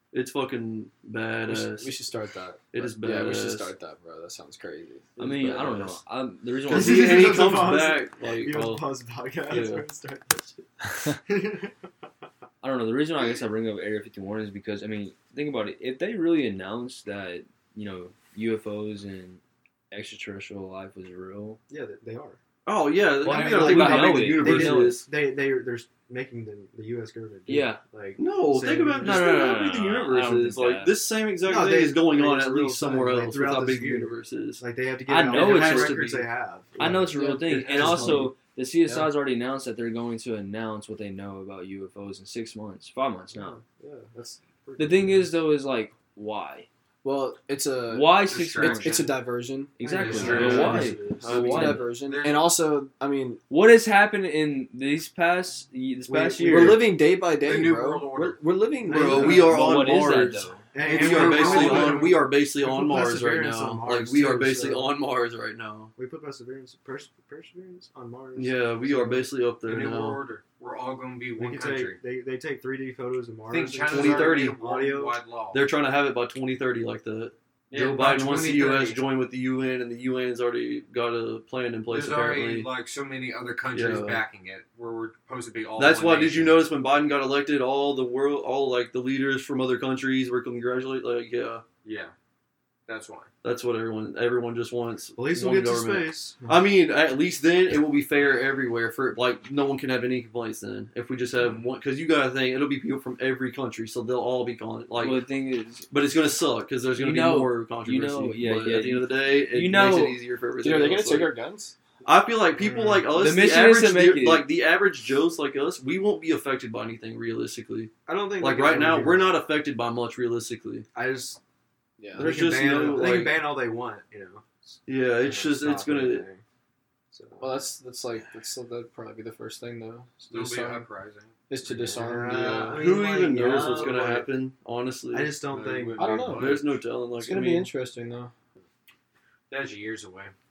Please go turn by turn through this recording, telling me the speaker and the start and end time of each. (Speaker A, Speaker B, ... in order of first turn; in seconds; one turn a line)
Speaker A: 0.1-2.0
Speaker B: 1.5-5.2
Speaker A: 2.7-3.7
Speaker C: 5.2-6.0
Speaker D: 5.2-7.0
Speaker C: 6.7-10.7
Speaker A: 6.7-8.8
Speaker A: 9.5-9.9
Speaker C: 11.3-11.9
Speaker D: 12.6-21.6
Speaker C: 21.7-22.4
Speaker A: 22.6-25.1
Speaker C: 23.2-29.4
Speaker D: 23.2-25.0
Speaker D: 27.5-27.8
Speaker A: 28.2-34.6
Speaker D: 29.0-31.0
Speaker C: 31.4-39.1
Speaker D: 35.1-36.1
Speaker A: 35.3-36.3
Speaker D: 36.8-43.6
Speaker B: 37.2-38.2
Speaker C: 43.3-45.3
Speaker D: 44.8-46.7
Speaker B: 47.0-50.7
Speaker D: 47.9-49.1
Speaker E: 48.3-49.1
Speaker D: 49.8-51.9
Speaker C: 49.8-51.6
Speaker E: 49.9-50.8
Speaker A: 50.1-51.9
Speaker B: 51.2-53.4
Speaker E: 51.9-52.5
Speaker D: 53.5-56.9
Speaker C: 56.1-56.9
Speaker B: 56.5-59.5
Speaker E: 57.4-58.4
Speaker A: 58.9-65.9
Speaker C: 58.9-59.9
Speaker D: 59.3-60.7
Speaker C: 60.7-64.9
Speaker E: 60.8-62.3
Speaker C: 66.0-69.3
Speaker A: 68.3-70.2
Speaker E: 69.6-72.0
Speaker C: 71.4-75.2
Speaker E: 73.5-75.6
Speaker A: 73.9-74.6
Speaker A: 75.5-82.7
Speaker E: 77.7-79.0
Speaker E: 81.9-86.7
Speaker A: 83.7-84.2
Speaker A: 85.8-91.6
Speaker E: 91.8-92.1
Speaker E: 92.9-93.3
Speaker A: 93.4-105.2
Speaker C: 95.2-96.6
Speaker D: 105.0-105.9
Speaker A: 105.9-111.3
Speaker D: 107.0-110.2
Speaker B: 110.6-111.8
Speaker A: 112.0-120.9
Speaker C: 112.6-113.1
Speaker D: 113.1-114.5
Speaker C: 118.1-119.4
Speaker C: 120.9-121.4
Speaker B: 122.0-122.4
Speaker C: 122.2-126.4
Speaker A: 122.2-123.5
Speaker A: 124.9-126.3
Speaker C: 127.1-127.6
Speaker B: 127.4-130.9
Speaker E: 130.2-132.0
Speaker B: 131.5-132.8
Speaker C: 131.9-134.3
Speaker A: 132.7-135.4
Speaker E: 133.6-133.9
Speaker C: 135.1-136.4
Speaker E: 135.5-136.7
Speaker B: 136.0-136.6
Speaker A: 136.3-137.7
Speaker B: 137.2-138.3
Speaker E: 139.5-140.3